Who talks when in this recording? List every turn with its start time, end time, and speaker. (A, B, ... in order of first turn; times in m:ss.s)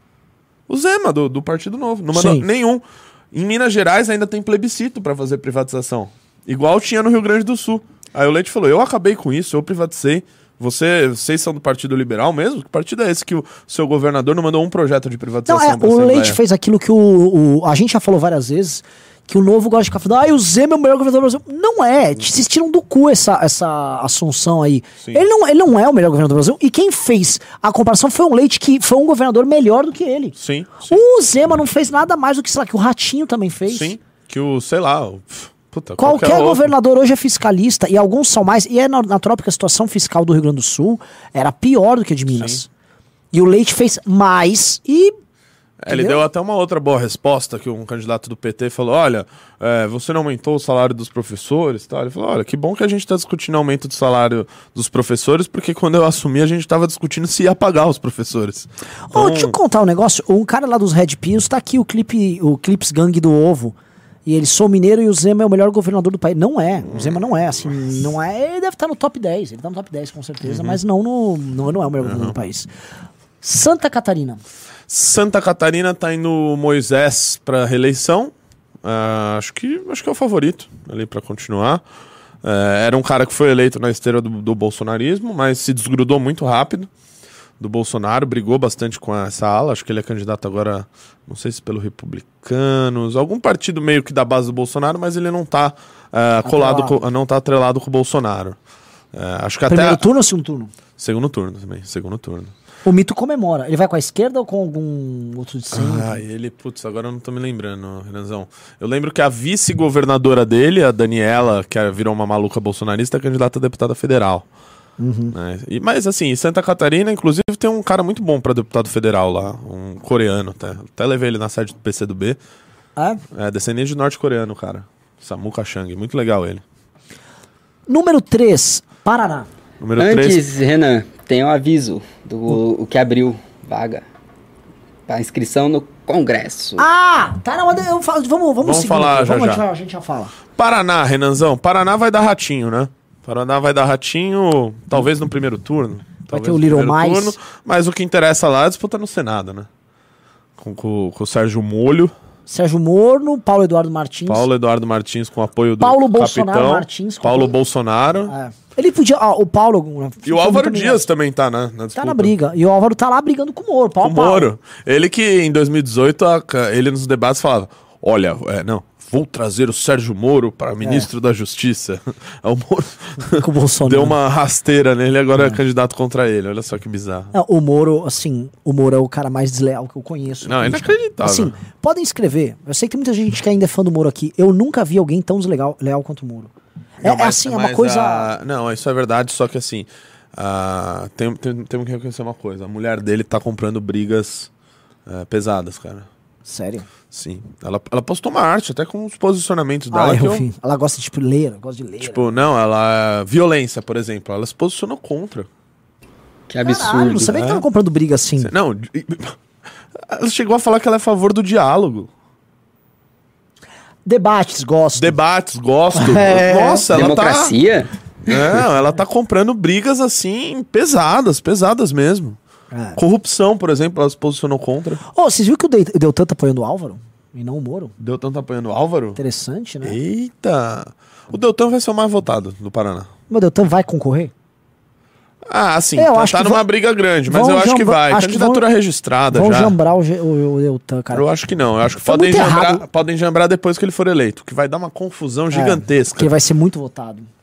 0:00.7-0:16.4 A
0:02.1-0:02.5 B
0:15.5-0:33.9 B
0:30.4-0:31.0 A
0:33.7-0:36.7 A
0:36.0-0:42.7 B
0:42.3-0:42.6 A
0:43.3-0:45.1 B
0:45.8-0:59.6 A
0:45.9-0:46.2 B
0:59.1-1:12.7 B
1:10.4-1:10.8 A
1:12.0-1:12.4 A
1:13.4-1:14.4 B
1:14.9-1:18.3 A
1:18.8-1:21.8 A
1:22.4-1:26.9 A
1:27.6-1:38.6 A
1:36.4-1:37.0 B
1:39.1-1:40.0 A
1:39.7-1:40.7 B
1:41.0-1:42.5 A
1:42.8-1:46.2 B
1:45.7-1:54.4 A
1:55.0-1:55.4 B
1:55.3-2:02.4 A
2:03.0-2:03.2 B
2:03.3-2:06.6 A
2:07.9-2:09.5 B
2:09.8-2:10.4 A
2:10.0-2:14.0 C
2:15.1-2:16.9 C
2:16.8-2:20.3 B
2:18.6-2:19.6 A
2:20.6-2:29.7 A
2:26.3-2:27.4 B
2:30.6-2:32.1 A
2:32.5-2:34.5 B
2:34.3-2:38.3 A
2:35.8-2:37.6 B
2:38.3-2:41.1 B
2:40.2-2:42.4 A
2:42.0-2:44.5 B
2:44.0-2:57.3 A
2:50.8-2:51.1 B
2:53.3-2:54.2 B
2:57.3-3:08.3 B
3:00.4-3:01.5 A
3:07.0-3:14.5 A
3:15.1-3:16.1 A
3:16.4-3:16.9 B
3:17.1-3:20.5 A
3:19.9-3:22.3 B
3:22.0-3:25.5 A
3:26.5-3:27.3 C
3:26.6-3:28.5 B
3:27.3-3:27.6 A
3:28.4-3:29.4 A
3:30.1-3:32.1 A
3:34.0-3:35.2 B
3:35.0-3:37.6 A
3:35.9-3:36.9 B
3:36.9-3:38.4 C
3:38.3-3:42.4 A
3:42.7-3:43.0 B
3:43.0-3:45.0 A
3:45.1-3:47.9 B
3:48.0-3:49.2 A
3:49.2-3:50.0 B
3:49.8-3:53.1 A
3:53.3-3:54.3 B
3:55.5-3:59.8 A
3:56.0-3:56.6 B
3:57.3-3:58.6 B
3:59.3-4:01.3 B
4:01.1-4:06.3 A
4:02.0-4:02.8 B
4:05.5-4:07.3 B